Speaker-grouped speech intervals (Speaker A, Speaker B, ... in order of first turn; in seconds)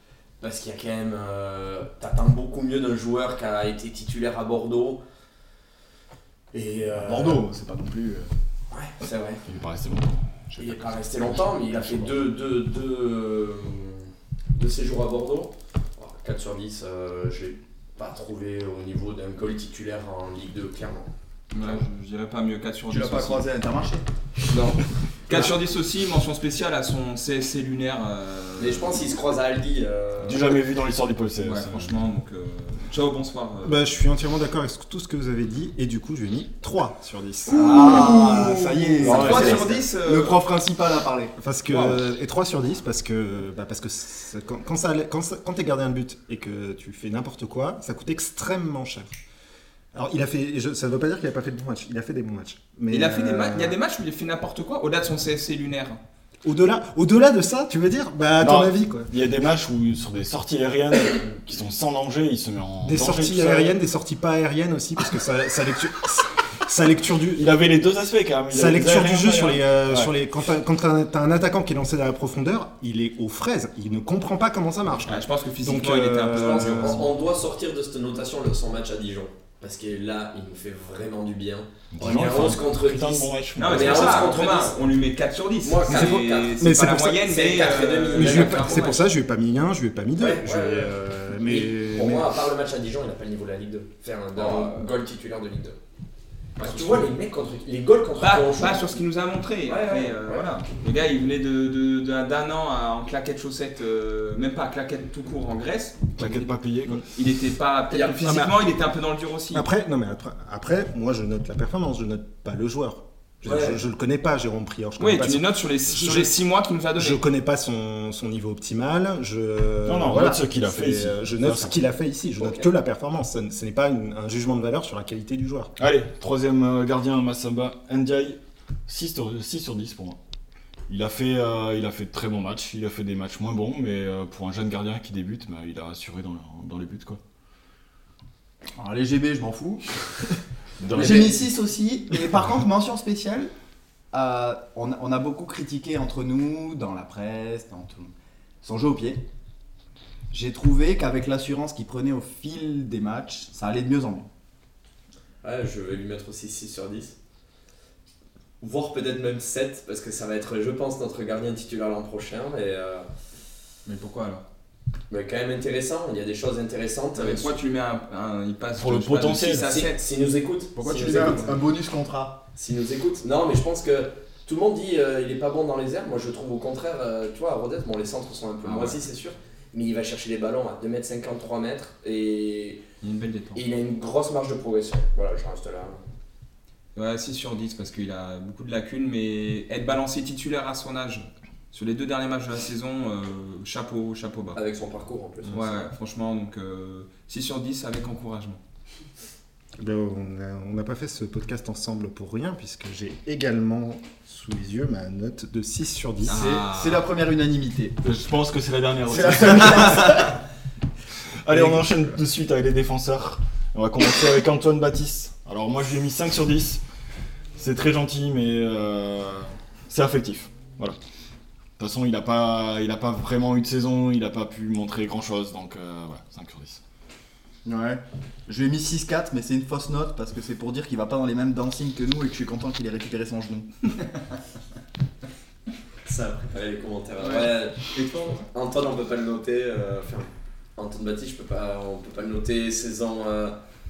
Speaker A: 0.4-5.0, 6.5-7.5, 8.7-9.4, 10.6-21.1, 28.6-30.5, 76.3-84.8, 85.6-86.6, 87.2-88.9, 90.2-95.8, 96.6-99.0, 99.7-100.5, 107.9-108.5, 113.5-113.8, 122.4-122.7, 141.0-141.3, 155.4-157.2, 158.6-163.1, 165.1-167.5, 169.7-171.6, 172.6-182.8, 183.6-186.0, 194.6-195.8, 236.1-243.6
Speaker B: 7.0-8.3, 22.9-24.0, 37.5-41.3, 138.8-139.9, 140.9-143.5, 144.1-148.1, 148.6-149.2, 150.3-154.3, 170.8-172.4, 206.3-208.0, 209.1-210.3, 211.5-212.1, 227.7-234.0
Speaker C: 9.5-12.3, 30.2-32.0, 37.8-38.5, 39.0-39.7, 58.4-63.8, 67.4-70.1, 81.9-84.3, 106.2-107.0, 119.8-121.8, 125.8-130.2, 130.9-137.2, 140.8-141.4, 168.8-169.7, 208.0-210.4, 211.4-216.8, 217.6-221.0, 221.8-226.8
Speaker D: 21.5-23.4, 24.5-29.1, 31.4-34.0, 37.5-40.4, 41.7-42.0, 52.9-56.0, 75.1-77.1, 83.6-89.0, 94.3-94.8, 96.6-97.1, 98.2-109.7, 115.0-117.2, 163.9-164.4, 167.2-170.0, 178.6-179.0, 183.0-183.6, 186.9-194.6, 195.5-198.6, 206.3-207.1, 237.2-238.4
Speaker E: 33.6-38.1, 41.4-49.1, 49.9-53.8, 56.4-59.1, 62.8-67.5, 68.5-77.0, 85.9-87.3, 88.1-92.3, 109.5-116.3, 117.0-125.7, 199.8-206.4